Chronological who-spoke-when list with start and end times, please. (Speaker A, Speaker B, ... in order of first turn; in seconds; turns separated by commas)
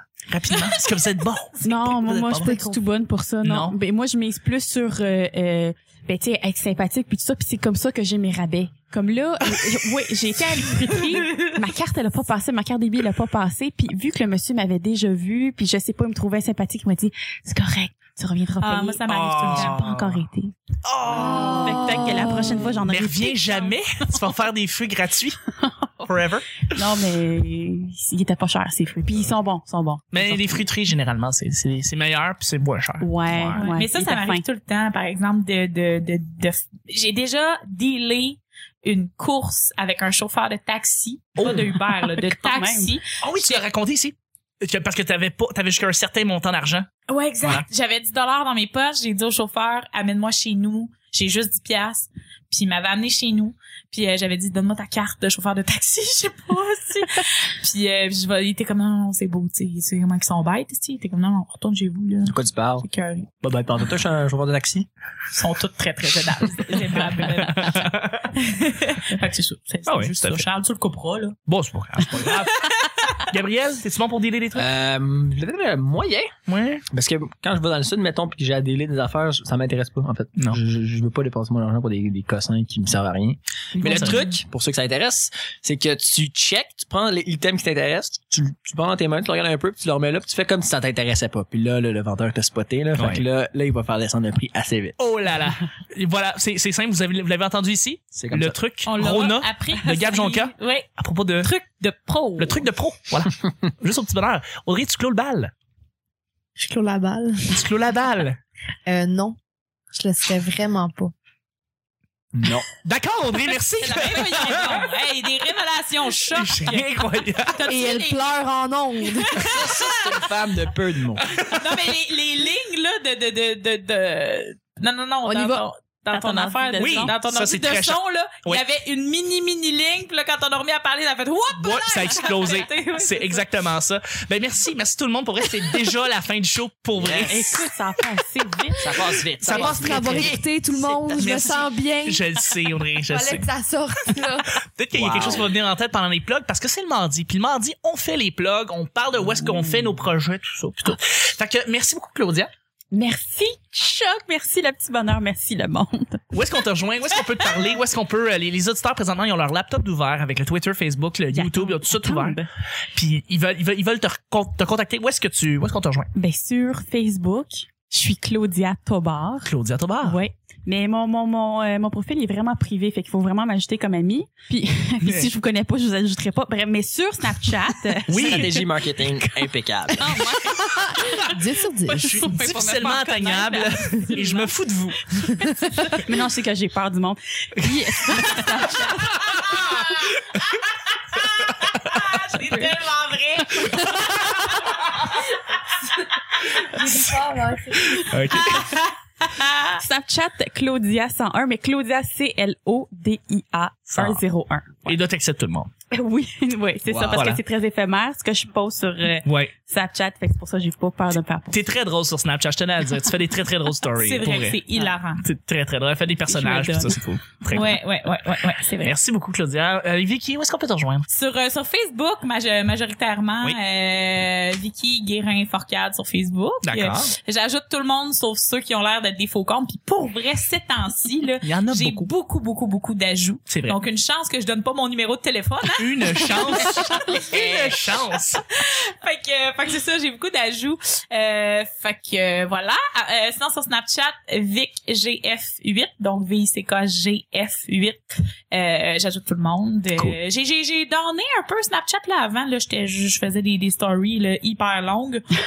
Speaker A: 0.3-2.7, Speaker B: 1.6-20.5, Speaker A: 3.4-3.8, Speaker A: 9.5-9.7, Speaker C: 11.2-11.6, Speaker C: 18.6-19.8, Speaker A: 19.1-20.2, Speaker A: 20.8-22.1, Speaker B: 21.2-23.7, Speaker A: 22.8-25.4, Speaker A: 26.0-26.8, Speaker B: 26.7-30.6, Speaker A: 30.1-33.7, Speaker B: 33.0-34.4, Speaker C: 33.6-43.6, Speaker A: 41.4-41.7, Speaker B: 41.4-43.0, Speaker A: 43.2-46.9, Speaker C: 47.1-63.3, Speaker D: 62.2-62.8, Speaker D: 63.4-64.9, Speaker C: 65.3-71.4, Speaker A: 67.4-68.3, Speaker A: 69.9-70.4, Speaker A: 71.5-72.7, Speaker C: 72.2-72.9, Speaker A: 73.2-74.7, Speaker D: 74.5-76.3, Speaker A: 76.5-76.8, Speaker D: 76.9-94.9, Speaker A: 83.8-84.2, Speaker B: 83.8-84.2, Speaker A: 93.0-93.2, Speaker A: 95.0-101.5, Speaker D: 98.1-98.6, Speaker C: 98.8-100.9, Speaker C: 101.4-102.6, Speaker A: 102.4-105.5, Speaker E: 106.6-107.6, Speaker A: 107.5-108.4, Speaker E: 108.9-109.4, Speaker E: 109.9-111.1, Speaker D: 112.3-112.7, Speaker A: 112.8-114.9, Speaker C: 113.8-118.4, Speaker A: 116.3-117.7, Speaker E: 117.7-119.5, Speaker C: 119.0-120.0, Speaker D: 119.5-121.3, Speaker A: 121.2-121.6, Speaker C: 121.5-133.4, Speaker E: 125.3-125.6, Speaker B: 126.1-127.1, Speaker A: 126.8-128.6, Speaker A: 131.6-137.7, Speaker D: 136.9-137.4, Speaker B: 137.1-139.0, Speaker D: 138.8-140.4, Speaker A: 139.4-143.4, Speaker E: 139.4-142.2, Speaker E: 143.1-144.6, Speaker A: 144.7-152.5, Speaker D: 144.9-145.5, Speaker B: 152.9-156.2, Speaker A: 156.3-162.4, Speaker B: 161.3-162.5, Speaker A: 162.9-166.1, Speaker B: 166.2-169.5, Speaker A: 169.4-170.2, Speaker B: 170.0-178.6, Speaker A: 175.0-175.3, Speaker A: 178.1-178.6, Speaker D: 178.1-180.1, Speaker B: 179.9-181.3, Speaker E: 180.5-182.4, Speaker B: 181.9-184.5, Speaker A: 181.9-185.5, Speaker B: 185.1-189.4, Speaker A: 189.5-190.4, Speaker A: 191.4-192.2, Speaker C: 191.7-194.3, Speaker A: 193.6-195.1, Speaker E: 196.6-198.1, Speaker A: 196.8-197.2, Speaker A: 197.7-198.7, Speaker C: 198.3-199.8, Speaker B: 199.8-205.0, Speaker A: 203.9-204.2, Speaker A: 204.8-205.7, Speaker B: 205.9-211.6, Speaker D: 206.9-207.3, Speaker A: 207.1-207.4, Speaker A: 209.2-209.5, Speaker A: 211.5-214.6, Speaker C: 214.0-215.2, Speaker A: 215.2-217.8, Speaker C: 216.3-216.9, Speaker C: 217.5-218.9, Speaker A: 218.8-221.1, Speaker C: 221.1-237.9, Speaker A: 226.6-227.1, Speaker A: 231.4-232.1, Speaker A: 233.5-233.8, Speaker A: 235.8-238.4, Speaker C: 238.5-255.2